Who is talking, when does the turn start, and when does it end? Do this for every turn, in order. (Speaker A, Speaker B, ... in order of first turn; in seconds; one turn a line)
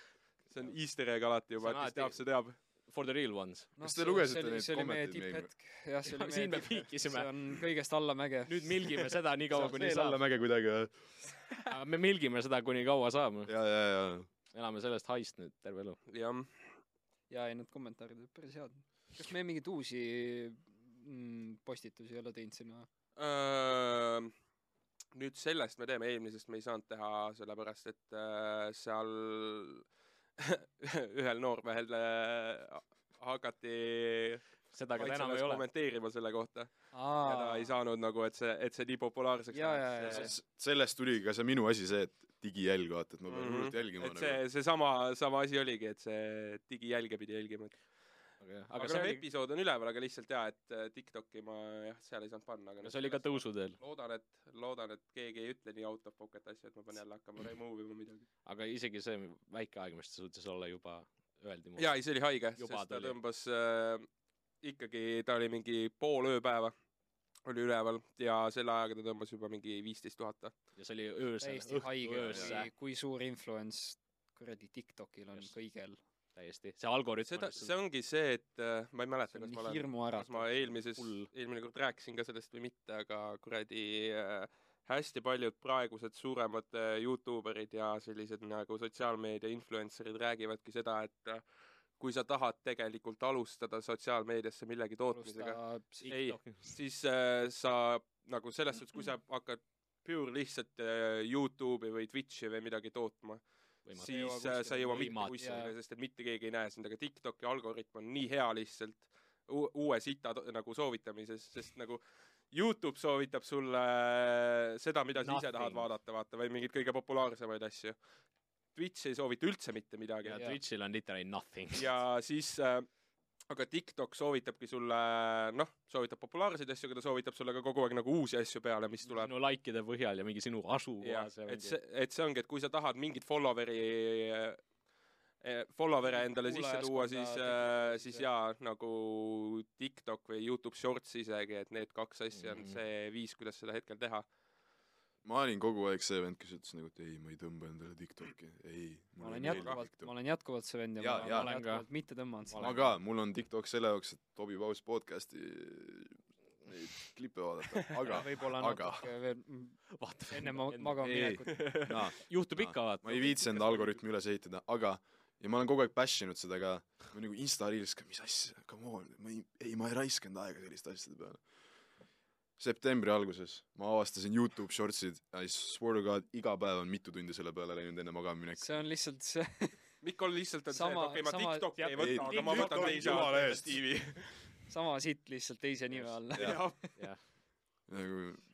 Speaker A: 0.5-2.5
Speaker B: 1.6-3.7
Speaker C: 3.8-9.7
Speaker D: 3.8-5.5
Speaker B: 6.0-7.6
Speaker B: 8.5-10.2
Speaker D: 9.5-10.9
Speaker B: 11.7-13.5
Speaker D: 13.4-14.3
Speaker B: 14.5-16.0
Speaker A: 16.1-16.6
Speaker C: 17.3-22.9
Speaker A: 23.1-24.3
Speaker A: 25.1-29.8
Speaker A: 30.4-40.3
Speaker B: 34.7-35.6
Speaker C: 36.9-37.7
Speaker C: 39.5-40.3
Speaker D: 40.1-44.4
Speaker A: 43.3-47.8
Speaker B: 48.4-49.2
Speaker A: 48.8-58.2
Speaker B: 52.8-53.8
Speaker B: 58.4-63.2
Speaker A: 61.8-64.1
Speaker A: 64.6-66.7
Speaker A: 67.4-70.5
Speaker B: 70.8-72.7
Speaker C: 71.4-76.0
Speaker B: 76.3-77.7
Speaker A: 77.3-91.4
Speaker C: 79.3-80.7
Speaker B: 80.9-81.3
Speaker A: 92.0-118.0
Speaker C: 95.1-96.1
Speaker B: 96.0-96.7
Speaker B: 103.8-105.7
Speaker C: 104.0-105.7
Speaker B: 115.1-115.9
Speaker A: 118.7-120.4
Speaker B: 120.2-121.9
Speaker A: 121.7-122.9
Speaker A: 123.5-129.3
Speaker B: 129.1-131.8
Speaker A: 131.0-134.7
Speaker A: 135.4-144.3
Speaker C: 136.1-138.3
Speaker B: 142.3-142.8
Speaker D: 145.2-150.1
Speaker C: 149.2-152.9
Speaker D: 151.0-151.5
Speaker B: 151.3-151.9
Speaker B: 152.5-152.8
Speaker D: 152.6-159.1
Speaker C: 158.1-161.6
Speaker B: 159.9-163.8
Speaker A: 161.5-161.9
Speaker D: 161.9-171.4
Speaker D: 172.6-178.8
Speaker C: 178.6-180.0
Speaker A: 180.0-184.3
Speaker C: 180.7-182.3
Speaker B: 181.8-183.8
Speaker D: 181.9-183.9
Speaker C: 184.7-186.9
Speaker A: 186.3-186.8
Speaker D: 186.3-186.6
Speaker B: 186.9-187.2
Speaker D: 187.9-188.4